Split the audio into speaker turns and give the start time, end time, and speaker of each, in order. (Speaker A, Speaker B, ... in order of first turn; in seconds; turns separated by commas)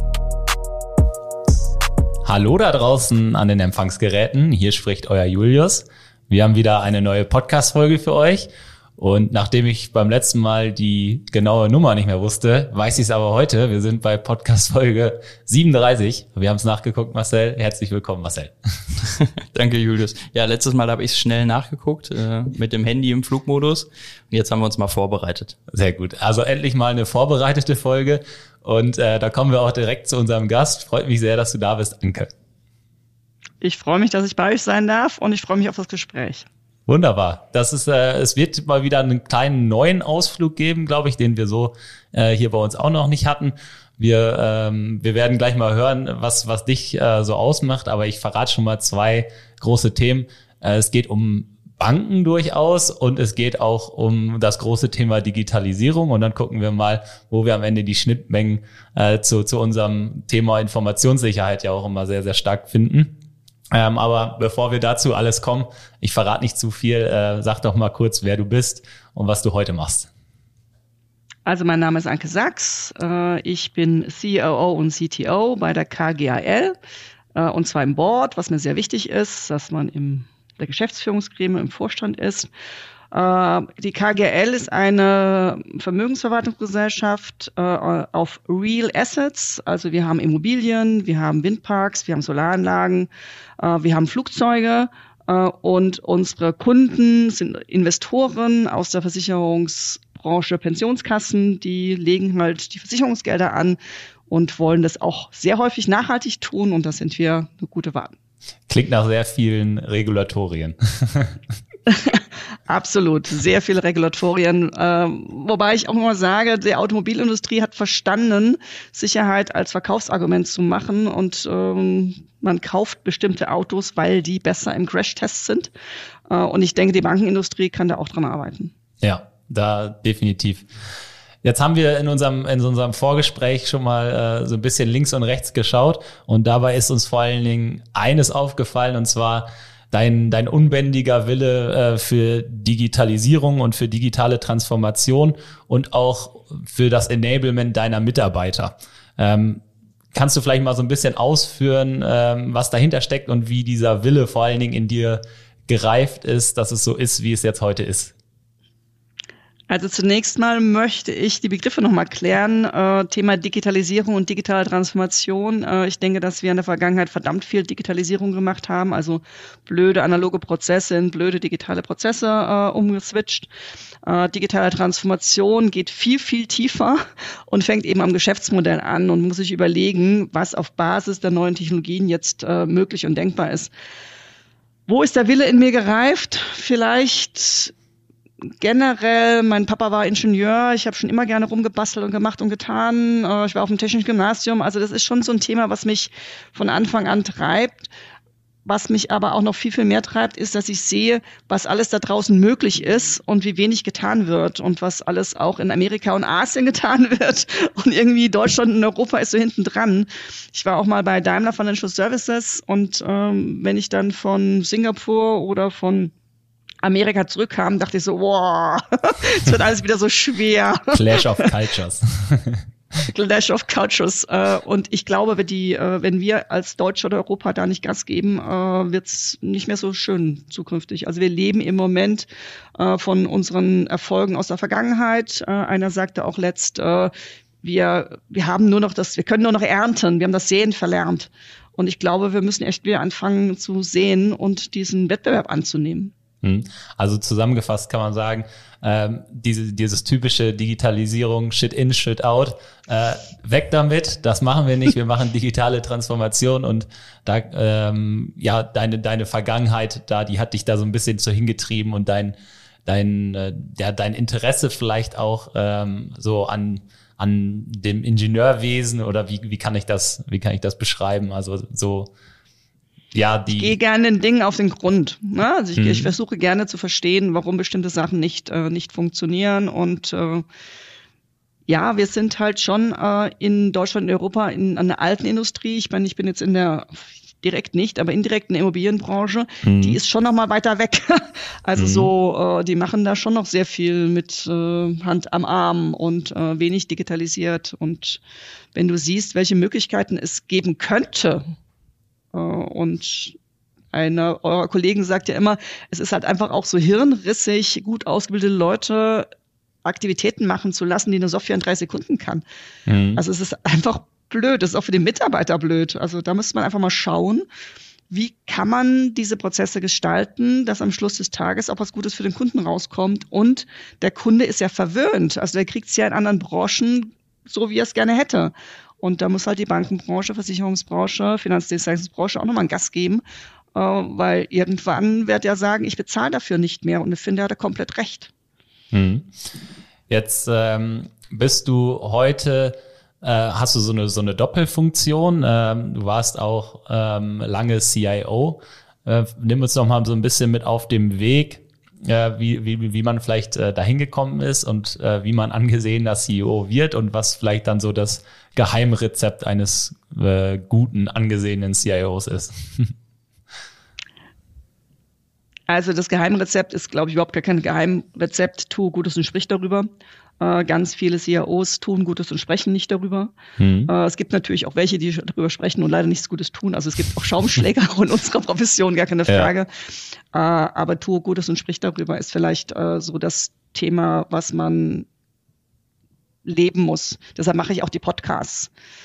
Speaker A: 2.2-18.5, Speaker B: 19.5-25.6, Speaker A: 25.7-32.3, Speaker C: 33.6-36.5, Speaker A: 36.9-63.1, Speaker A: 63.7-70.1, Speaker C: 71.5-76.7, Speaker C: 77.3-82.5, Speaker C: 83.1-103.8, Speaker C: 104.3-108.1, Speaker A: 108.7-111.4, Speaker C: 111.9-125.7, Speaker C: 126.3-128.7, Speaker A: 129.0-130.7, Speaker A: 131.4-149.6, Speaker A: 150.1-158.1, Speaker C: 159.7-173.5, Speaker C: 174.0-183.7, Speaker C: 184.9-187.7, Speaker C: 188.6-197.9, Speaker C: 198.7-216.1, Speaker C: 216.8-221.5, Speaker A: 220.9-222.6, Speaker C: 223.0-237.1, Speaker C: 237.6-246.1, Speaker A: 246.4-262.3, Speaker A: 262.9-272.1, Speaker A: 273.1-273.8, Speaker C: 273.5-280.4, Speaker A: 275.8-276.1, Speaker C: 281.7-298.2, Speaker A: 289.6-290.0, Speaker A: 291.8-292.1, Speaker C: 298.7-301.4, Speaker C: 302.3-303.4, Speaker C: 303.9-309.3, Speaker C: 309.8-312.4, Speaker A: 312.9-313.2, Speaker C: 313.1-317.4, Speaker C: 318.1-333.2, Speaker C: 333.7-338.3, Speaker A: 338.9-339.3, Speaker A: 340.1-362.9, Speaker C: 365.7-369.9, Speaker C: 370.4-373.3, Speaker A: 373.6-373.9, Speaker C: 373.9-379.7, Speaker C: 380.3-385.1, Speaker C: 386.4-388.7